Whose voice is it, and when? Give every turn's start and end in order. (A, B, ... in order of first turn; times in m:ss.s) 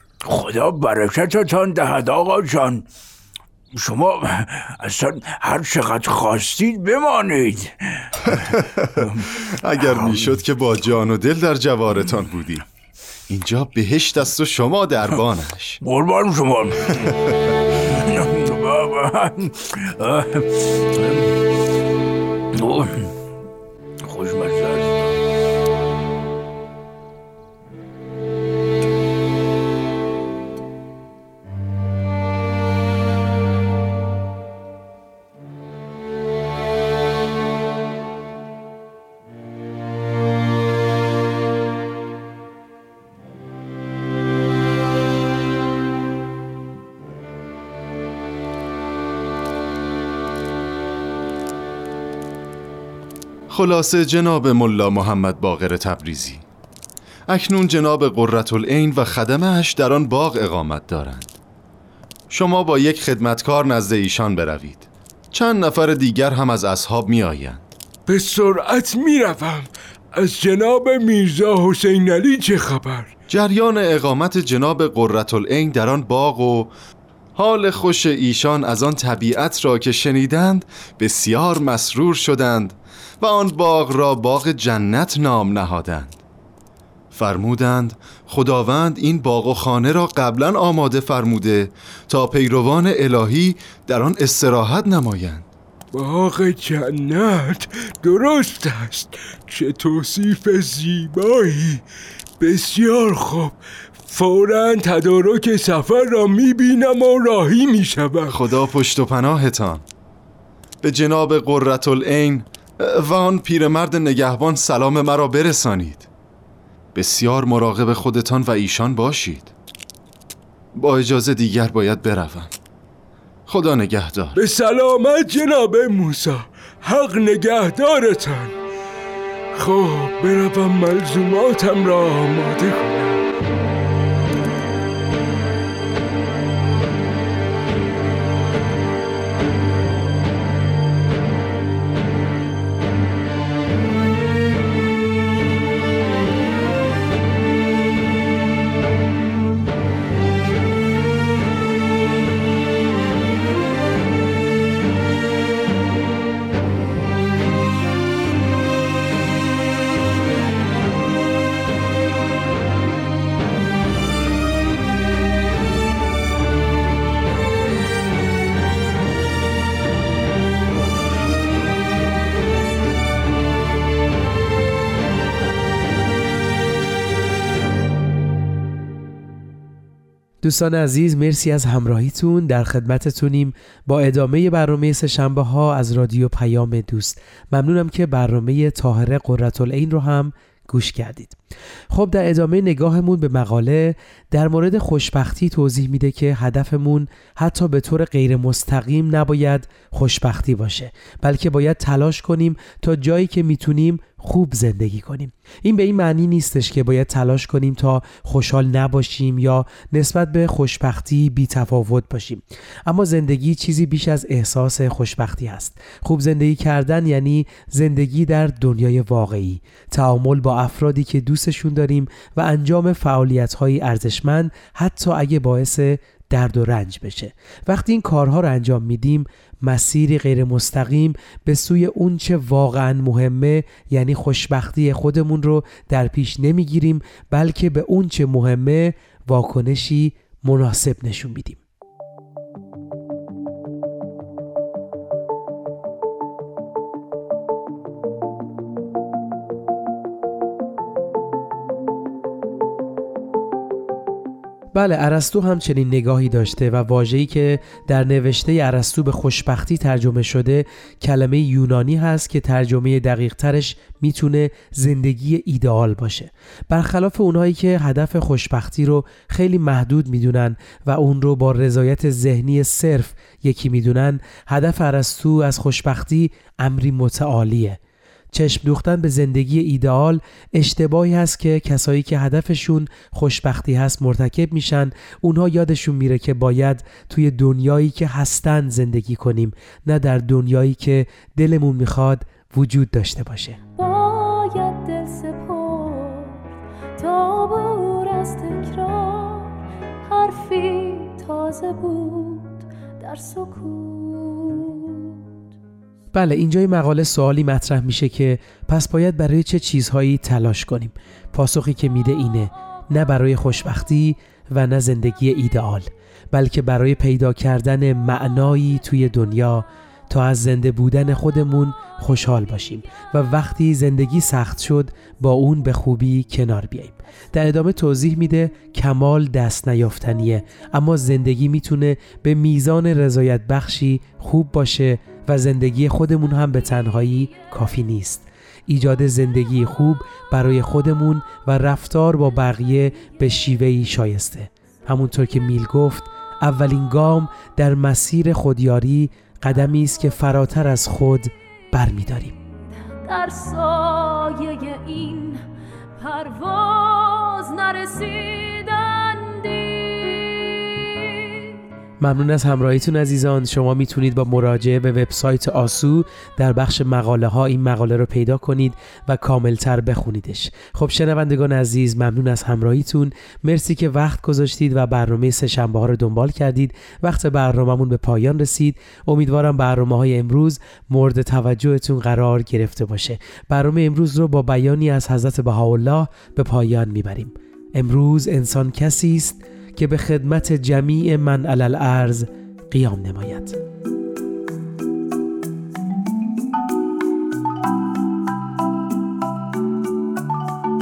0:00.2-0:02.9 A
0:03.8-0:08.0 A
0:08.3-0:09.1 B
0:09.0-0:09.3 A
0:09.6-0:12.6 B
0:09.9-0:10.4 A
0:13.3-0:15.8 B
0:15.8-0:17.1 A
0:18.1-0:21.3 A
0:22.6-0:23.1 A
0:24.0-0:25.1 A
0:53.5-0:56.4 B
0:57.3-1:01.3 B
1:02.3-1:07.6 B
1:08.1-1:13.1 C
1:13.3-1:16.7 B
1:17.4-1:26.2 B
1:27.1-1:35.5 B
1:35.9-1:41.8 C
1:42.4-1:48.4 C
1:48.3-1:49.8 B
1:50.8-1:56.1 B
1:57.0-1:59.5 B
2:00.8-2:02.5 B
2:03.5-2:04.4 B
2:04.4-2:08.5 C
2:09.6-2:13.2 C
3:00.4-3:11.4 D
3:11.9-4:01.6 D
4:14.7-4:37.8 D
4:38.3-4:53.6 D
4:53.8-5:05.4 E
5:06.1-5:52.3 D
5:53.0-5:55.4 E
5:56.0-6:01.1 E
6:02.0-6:33.6 D